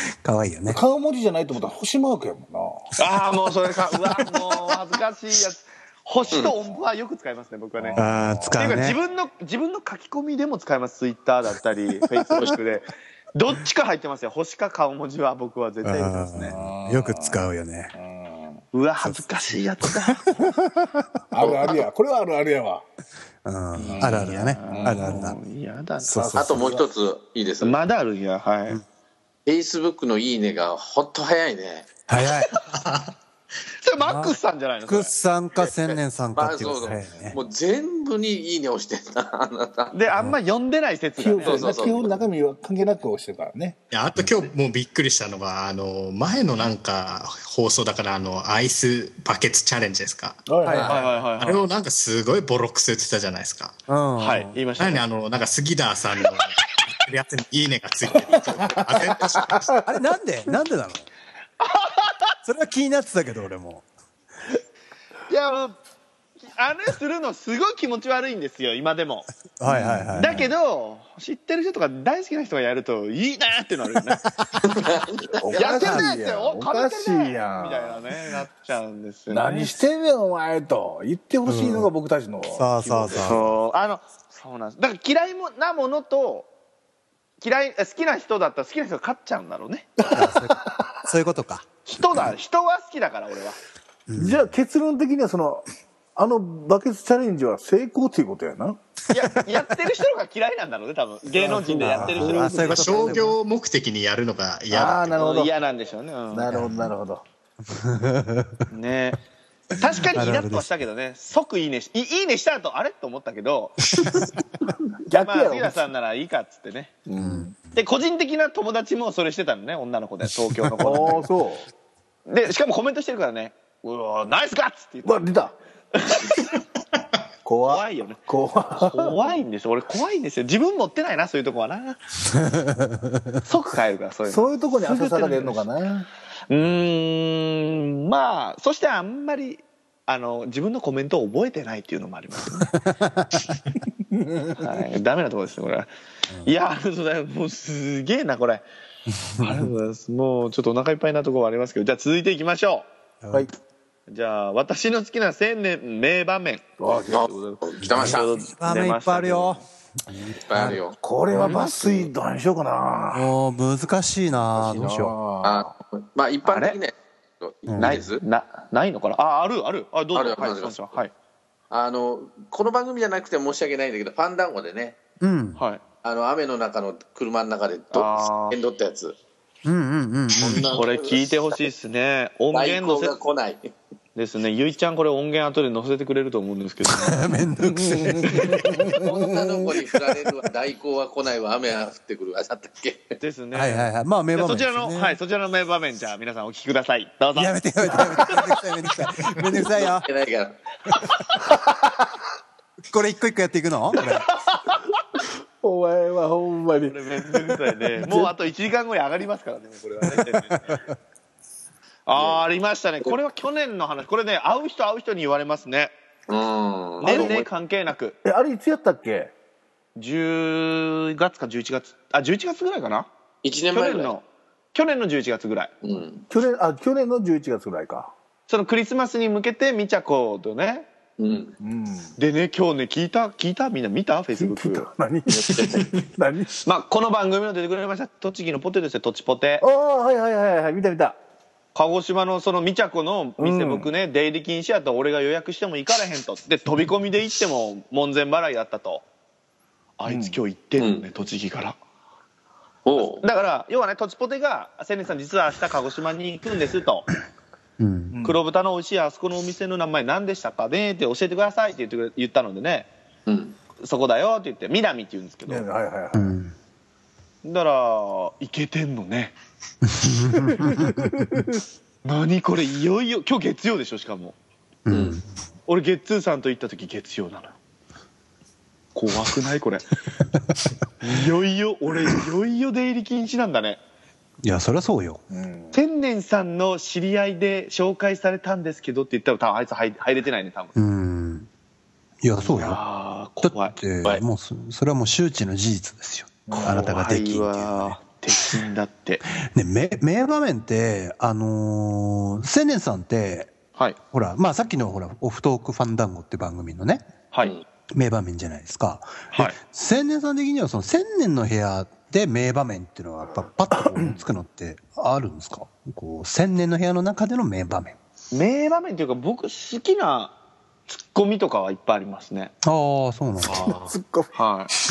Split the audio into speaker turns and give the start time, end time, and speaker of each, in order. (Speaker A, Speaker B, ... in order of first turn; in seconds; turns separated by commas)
Speaker A: 0.2-0.8, Speaker B: 0.7-2.7, Speaker C: 3.0-8.0, Speaker B: 4.0-4.8, Speaker B: 6.3-6.8, Speaker B: 7.8-8.8, Speaker A: 8.0-9.0, Speaker C: 8.6-16.5, Speaker A: 15.8-17.9, Speaker B: 16.5-17.4, Speaker B: 17.9-18.6, Speaker C: 18.7-20.5, Speaker A: 19.0-20.0, Speaker B: 21.3-22.8, Speaker D: 21.4-21.7, Speaker A: 23.4-25.4, Speaker B: 23.8-25.3, Speaker C: 23.9-26.2, Speaker A: 26.0-26.5, Speaker B: 26.1-26.9, Speaker D: 26.3-27.8, Speaker C: 27.6-28.8, Speaker D: 29.4-31.9, Speaker A: 32.1-32.5, Speaker E: 32.7-33.1, Speaker C: 33.8-35.1, Speaker A: 34.0-37.4, Speaker D: 36.3-39.9, Speaker C: 39.9-42.1, Speaker B: 41.2-43.8, Speaker D: 41.4-42.1, Speaker E: 43.9-53.8, Speaker B: 50.5-51.0, Speaker A: 50.6-50.9, Speaker C: 50.8-51.6, Speaker A: 53.9-54.6, Speaker C: 54.2-55.0, Speaker E: 54.8-59.8, Speaker B: 58.9-59.8, Speaker A: 59.8-61.1, Speaker C: 61.6-62.3, Speaker A: 62.4-63.8, Speaker C: 65.3-65.7, Speaker C: 66.4-69.3, Speaker A: 69.6-70.5, Speaker B: 69.6-70.4, Speaker C: 70.2-74.2, Speaker D: 74.7-75.4, Speaker B: 75.3-78.0, Speaker C: 75.5-79.8, Speaker A: 75.8-76.1, Speaker B: 79.3-82.6, Speaker A: 81.5-81.9, Speaker A: 82.5-83.6, Speaker C: 82.8-86.5, Speaker C: 87.4-89.9, Speaker B: 90.0-90.7, Speaker A: 90.1-92.3, Speaker C: 91.8-93.6, Speaker A: 94.1-94.5, Speaker B: 94.2-98.8, Speaker C: 99.1-103.2, Speaker B: 101.3-103.2, Speaker A: 101.8-103.3, Speaker E: 102.5-105.2, Speaker B: 104.7-105.5, Speaker C: 104.8-106.6, Speaker B: 106.3-107.2, Speaker A: 106.5-106.9, Speaker A: 107.7-108.6, Speaker C: 108.7-109.2, Speaker C: 109.8-113.8, Speaker A: 110.1-110.7, Speaker B: 115.0-115.8, Speaker C: 115.2-117.0, Speaker B: 117.0-117.5, Speaker A: 117.2-117.5, Speaker C: 117.7-121.3, Speaker A: 120.4-120.8, Speaker B: 120.8-121.7, Speaker C: 122.3-125.2, Speaker B: 125.0-125.5, Speaker C: 125.9-126.5, Speaker B: 127.4-129.2, Speaker C: 127.7-128.2, Speaker C: 128.8-132.0, Speaker A: 132.3-133.4, Speaker C: 133.4-135.6, Speaker B: 134.3-136.1, Speaker C: 136.5-142.8, Speaker A: 142.7-143.5, Speaker B: 144.1-144.5, Speaker C: 144.6-145.9, Speaker C: 146.4-148.6, Speaker A: 149.3-149.7, Speaker C: 149.4-152.9, Speaker A: 153.2-153.5, Speaker C: 154.1-156.7, Speaker B: 156.8-157.6, Speaker D: 157.1-158.3, Speaker A: 157.9-160.8, Speaker C: 157.9-159.6, Speaker D: 160.4-162.0, Speaker B: 161.0-163.3, Speaker C: 161.3-162.0, Speaker A: 163.1-165.1, Speaker B: 164.5-165.7, Speaker D: 165.4-168.2, Speaker C: 166.4-166.8, Speaker A: 167.7-168.0, Speaker C: 167.8-171.1, Speaker D: 170.1-171.0, Speaker D: 171.7-175.0, Speaker A: 175.2-175.6, Speaker C: 175.6-175.8, Speaker D: 176.0-179.1, Speaker C: 177.9-178.6, Speaker A: 179.6-180.8, Speaker D: 180.4-181.6, Speaker C: 180.7-183.2, Speaker D: 182.5-183.7, Speaker C: 184.2-187.3, Speaker A: 186.8-189.0, Speaker B: 187.8-189.8, Speaker C: 188.3-188.5, Speaker D: 189.0-193.2, Speaker C: 193.2-198.4, Speaker A: 193.5-195.2, Speaker A: 197.3-200.1, Speaker D: 199.7-200.6, Speaker A: 202.9-204.3, Speaker B: 205.6-206.9, Speaker C: 206.8-210.8, Speaker B: 208.0-208.3, Speaker A: 210.6-210.9, Speaker C: 212.1-215.9, Speaker D: 212.1-212.4, Speaker D: 216.3-217.4, Speaker C: 217.0-218.2, Speaker B: 217.0-217.4, Speaker B: 218.2-219.3, Speaker C: 219.9-223.1, Speaker D: 223.4-224.1, Speaker C: 223.7-225.7, Speaker D: 225.8-226.2, Speaker B: 226.3-228.1, Speaker C: 228.5-230.9, Speaker D: 231.2-231.5, Speaker B: 231.6-232.1, Speaker C: 232.2-234.9, Speaker B: 234.4-236.5, Speaker E: 235.5-235.9, Speaker D: 235.5-235.8, Speaker C: 236.6-239.6, Speaker B: 239.6-241.2, Speaker C: 241.7-249.0, Speaker B: 243.4-243.9, Speaker C: 250.0-251.8, Speaker B: 250.1-250.4, Speaker D: 250.8-251.0, Speaker D: 252.8-253.2, Speaker C: 252.9-257.1, Speaker A: 257.8-258.1, Speaker B: 258.1-258.4, Speaker C: 258.2-262.9, Speaker D: 263.3-263.5, Speaker C: 263.8-265.7, Speaker B: 265.5-266.4, Speaker A: 266.1-266.5, Speaker C: 267.4-269.3, Speaker A: 269.8-271.4, Speaker B: 270.5-271.6, Speaker C: 272.0-274.4, Speaker A: 274.9-275.2, Speaker D: 274.9-275.2, Speaker C: 275.7-277.5, Speaker C: 278.9-279.8, Speaker C: 281.0-283.8, Speaker A: 284.4-285.2, Speaker B: 285.3-285.8, Speaker C: 285.7-290.7, Speaker A: 290.7-291.5, Speaker A: 292.2-292.8, Speaker C: 292.4-293.8, Speaker A: 293.4-298.0, Speaker B: 296.5-296.9, Speaker C: 296.5-299.2, Speaker A: 299.4-303.5, Speaker A: 304.1-307.1, Speaker C: 307.3-307.6, Speaker A: 307.9-318.0, Speaker C: 318.3-320.4, Speaker C: 320.9-322.5, Speaker A: 322.6-323.7, Speaker E: 323.4-323.9, Speaker B: 323.5-324.3, Speaker C: 324.3-324.7